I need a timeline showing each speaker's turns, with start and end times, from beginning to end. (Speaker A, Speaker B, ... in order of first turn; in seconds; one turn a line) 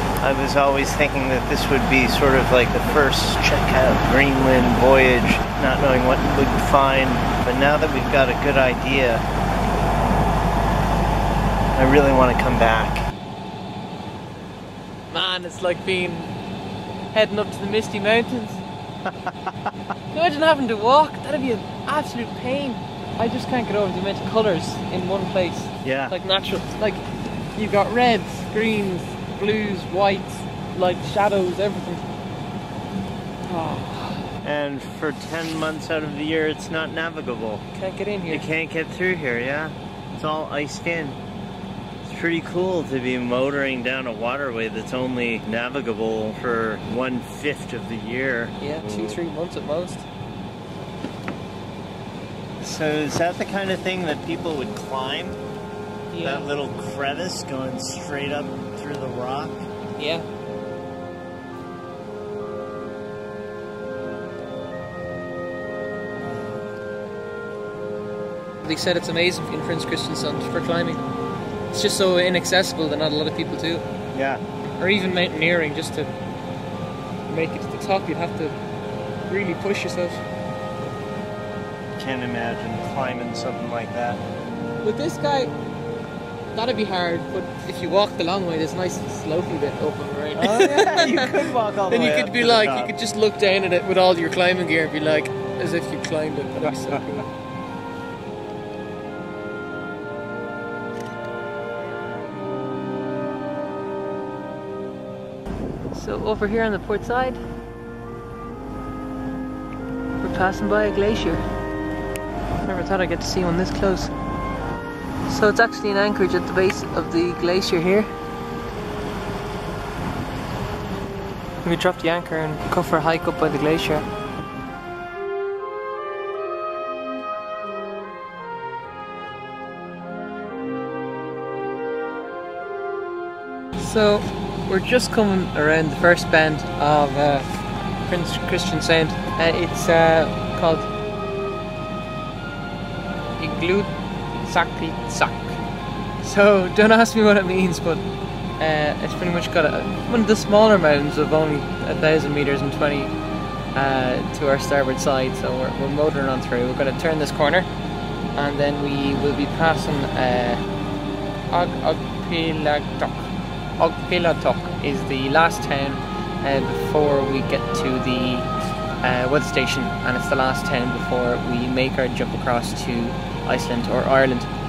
Speaker A: 0.2-9.2
Speaker A: 11.8-13.1
Speaker B: 15.1-16.3
Speaker B: 17.1-18.6
Speaker A: 19.0-19.7
Speaker B: 20.1-32.0
Speaker A: 25.8-26.2
Speaker B: 33.5-34.3
Speaker A: 34.4-37.6
Speaker B: 37.8-38.4
Speaker A: 38.3-41.2
Speaker A: 42.0-49.2
Speaker B: 48.6-50.1
Speaker A: 52.6-55.4
Speaker B: 56.1-56.5
Speaker A: 56.2-59.7
Speaker B: 60.0-60.3
Speaker B: 68.6-71.0
Speaker B: 71.7-73.8
Speaker A: 74.1-74.4
Speaker B: 74.8-76.1
Speaker B: 77.3-78.6
Speaker B: 79.3-80.2
Speaker A: 82.0-84.2
Speaker B: 84.8-85.5
Speaker B: 86.5-97.3
Speaker A: 90.4-92.9
Speaker B: 105.9-107.4
Speaker B: 110.2-111.4
Speaker B: 112.6-114.1
Speaker B: 115.3-118.1
Speaker B: 121.6-124.0
Speaker B: 133.8-137.5
Speaker B: 138.1-140.9
Speaker B: 143.4-143.9
Speaker B: 144.4-145.6
Speaker B: 146.2-148.0
Speaker B: 148.6-153.1
Speaker B: 153.8-157.7
Speaker B: 158.3-160.6
Speaker B: 161.5-168.5
Speaker B: 169.0-174.5